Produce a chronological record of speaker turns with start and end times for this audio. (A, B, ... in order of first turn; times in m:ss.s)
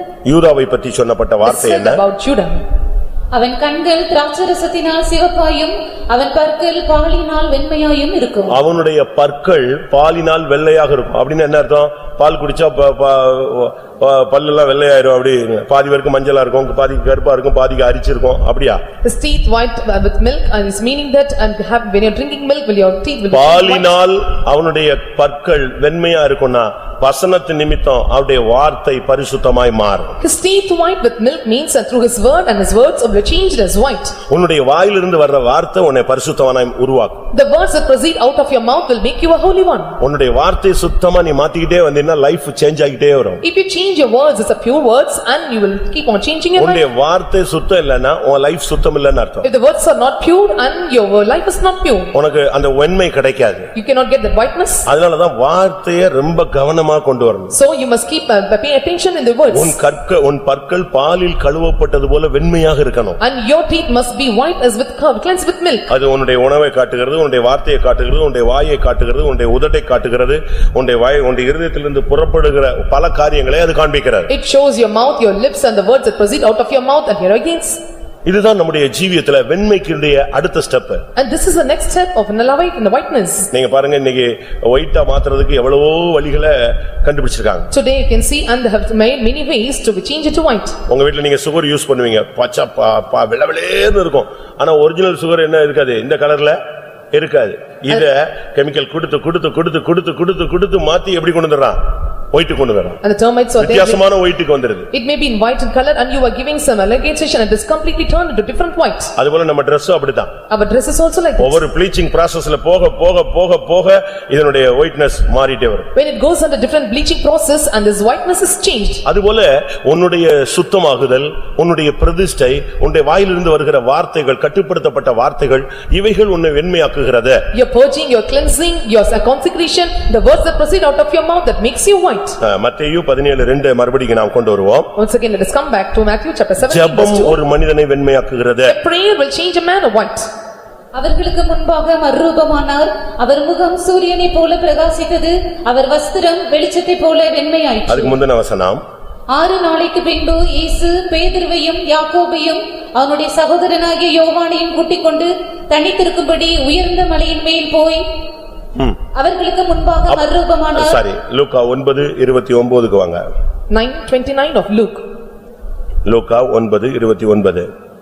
0:00.2-0:02.0 A
0:01.4-0:02.6 B
0:03.3-0:08.6 C
0:08.5-0:18.8 A
0:19.0-0:23.9 B
0:23.3-0:30.2 A
0:30.2-0:34.2 B
0:34.3-0:37.2 A
0:37.3-0:40.0 B
0:40.0-0:43.4 A
0:43.4-0:46.8 B
0:46.6-0:49.5 A
0:49.4-0:52.1 B
0:52.1-0:53.7 A
0:53.8-0:54.9 B
0:54.9-0:57.6 A
0:57.5-0:59.8 B
0:59.5-1:03.2 A
1:03.2-1:05.9 B
1:05.9-1:14.3 A
1:14.3-1:17.8 B
1:18.3-1:21.0 A
1:21.2-1:23.5 B
1:23.5-1:27.7 A
1:27.7-1:30.8 B
1:30.9-1:36.6 A
1:37.1-1:41.8 A
1:42.3-1:43.0 A
1:43.0-1:44.0 B
1:43.6-1:44.9 A
1:44.9-1:49.1 B
1:49.2-1:50.3 A
1:50.5-1:51.6 B
1:51.4-1:55.9 A
1:56.0-1:59.0 B
1:59.1-2:07.4 A
2:07.5-2:12.4 B
2:12.4-2:14.9 A
2:15.0-2:17.4 B
2:16.6-2:18.8 A
2:18.7-2:20.3 B
2:21.0-2:28.2 C
2:27.9-2:28.8 A
2:29.3-2:38.0 C
2:39.1-2:41.0 C
2:40.1-2:43.2 A
2:43.7-2:45.0 B
2:46.1-2:47.7 A